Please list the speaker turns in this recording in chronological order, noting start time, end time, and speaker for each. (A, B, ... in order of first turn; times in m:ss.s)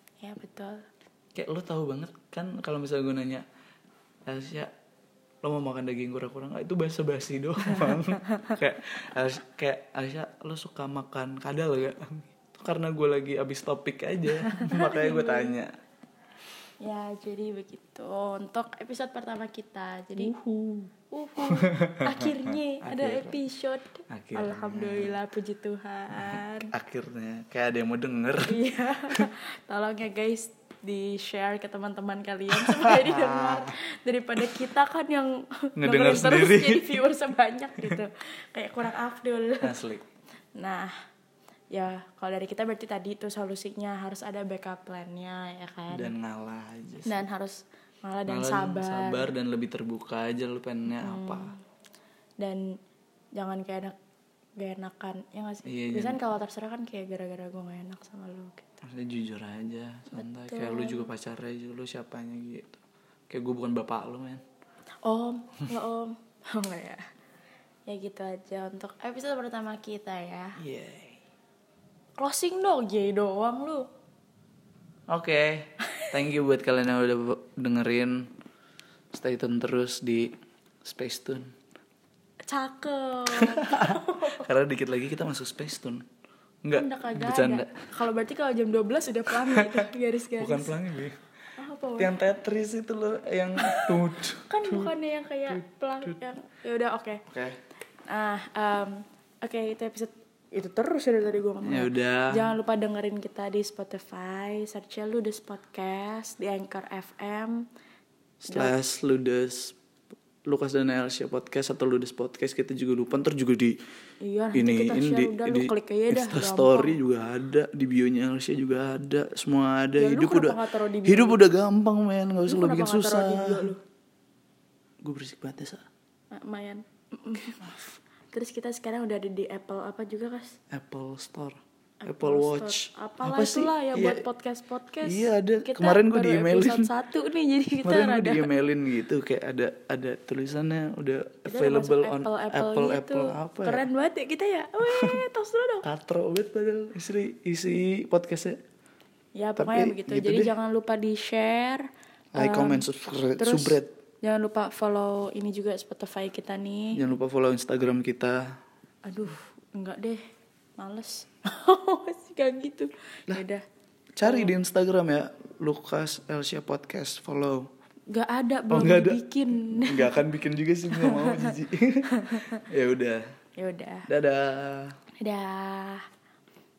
0:00.2-0:00.8 A
0:01.4-0:03.4 B
0:04.3-0:04.7 B
0:05.4-0:15.7 B
0:07.7-0:08.6 A
0:14.5-0:15.6 A
0:16.8-0:20.3 A
0:20.2-0:20.9 B
0:21.1-0:26.7 A
0:21.5-0:23.4 B
0:24.1-0:25.2 B
0:26.3-0:29.3 B
0:28.5-0:39.8 A
0:32.5-0:33.7 B
0:35.8-0:37.1 B
0:39.6-0:40.0 B
0:40.6-0:41.0 A
0:41.7-0:46.1 A
0:45.9-0:47.2 B
0:47.0-0:49.3 A
0:48.3-0:51.5 B
0:50.9-0:51.6 A
0:52.4-0:52.8 A
0:53.4-0:54.0 A
0:54.6-0:58.7 A
0:55.7-0:56.2 B
0:58.8-1:04.4 B
1:00.2-1:01.1 A
1:05.0-1:07.0 A
1:07.9-1:10.6 A
1:10.6-1:11.2 B
1:12.2-1:13.9 A
1:15.1-1:18.3 B
1:19.1-1:20.3 B
1:20.8-1:21.5 B
1:22.5-1:24.5 A
1:23.3-1:26.1 B
1:26.6-1:27.7 B
1:26.7-1:30.7 A
1:29.3-1:31.2 B
1:31.6-1:32.2 A
1:32.0-1:34.9 B
1:33.6-1:37.3 A
1:35.5-1:36.2 B
1:37.3-1:37.6 B
1:38.1-1:47.6 A
1:41.6-1:42.5 B
1:48.4-1:49.8 B
1:50.5-1:53.8 B
1:54.2-1:57.0 A
1:54.5-2:03.8 B
2:00.0-2:01.4 A
2:02.5-2:03.8 A
2:05.0-2:05.9 B
2:06.3-2:10.6 A
2:10.7-2:14.3 B
2:12.0-2:18.5 A
2:15.0-2:16.9 B
2:17.8-2:23.9 B
2:21.5-2:25.9 A
2:24.9-2:25.2 B
2:25.8-2:28.6 B
2:29.4-2:32.8 A
2:29.6-2:30.5 B
2:32.3-2:33.9 B
2:33.4-2:37.0 A
2:36.9-2:38.5 B
2:39.1-2:43.6 A
2:44.2-2:47.7 B
2:44.2-2:44.6 A
2:48.1-2:50.2 A
2:48.7-2:53.3 B
2:50.9-2:51.6 A
2:52.1-2:52.6 A
2:53.6-2:54.1 A
2:54.1-2:55.0 B
2:55.2-2:56.1 A